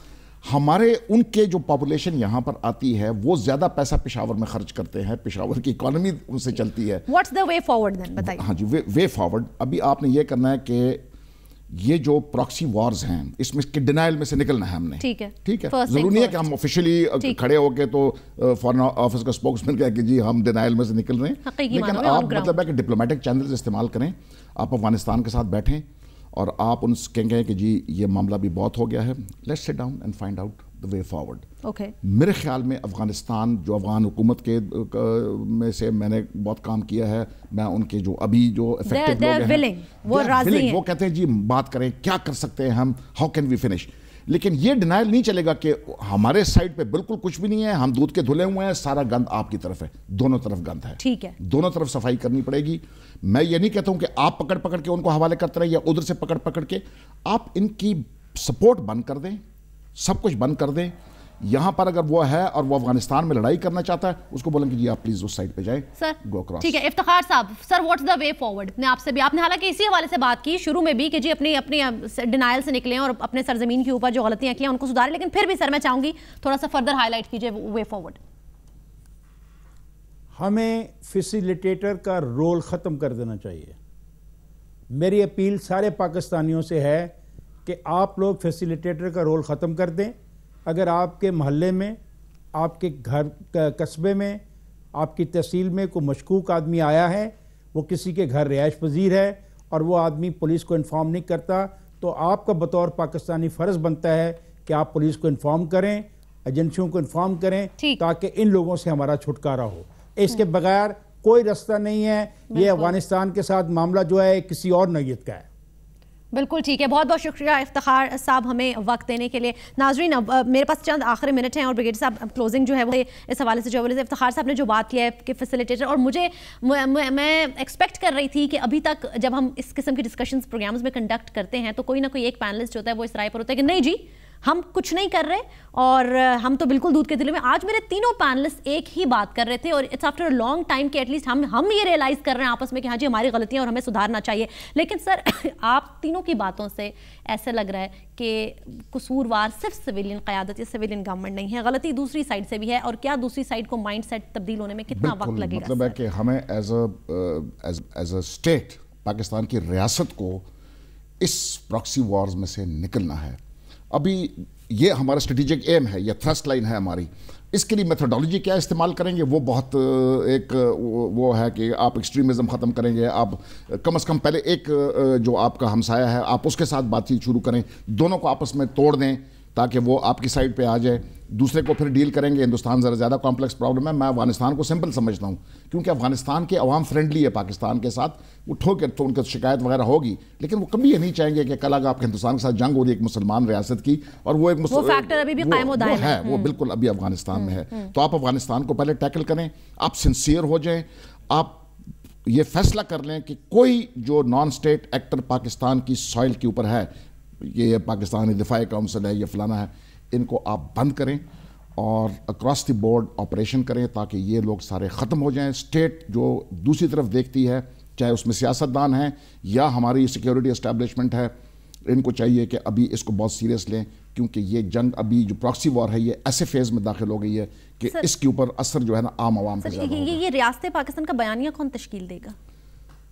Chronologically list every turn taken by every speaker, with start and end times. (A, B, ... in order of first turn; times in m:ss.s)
0:00.4-0:07.0 A
0:07.1-0:08.4 B
0:08.2-0:11.0 A
0:11.7-0:31.5 A
0:15.0-0:16.5 B
0:21.5-0:22.6 B
0:31.6-0:31.9 B
0:32.0-0:59.4 A
0:38.9-0:40.8 B
0:51.0-0:51.4 B
1:00.0-1:06.8 A
1:06.0-1:18.2 B
1:20.4-1:23.8 C
1:24.9-1:27.1 C
1:27.6-1:30.2 C
1:30.7-1:32.0 C
1:32.6-1:34.4 C
1:35.0-1:55.5 C
1:52.5-1:52.9 B
1:56.3-2:36.0 B
2:34.9-2:40.5 A
2:41.2-2:43.4 A
2:43.9-3:21.7 A
3:14.7-3:16.6 B
3:22.3-3:31.2 A
3:31.8-3:41.3 A
3:41.9-3:50.2 A
3:49.6-3:52.4 B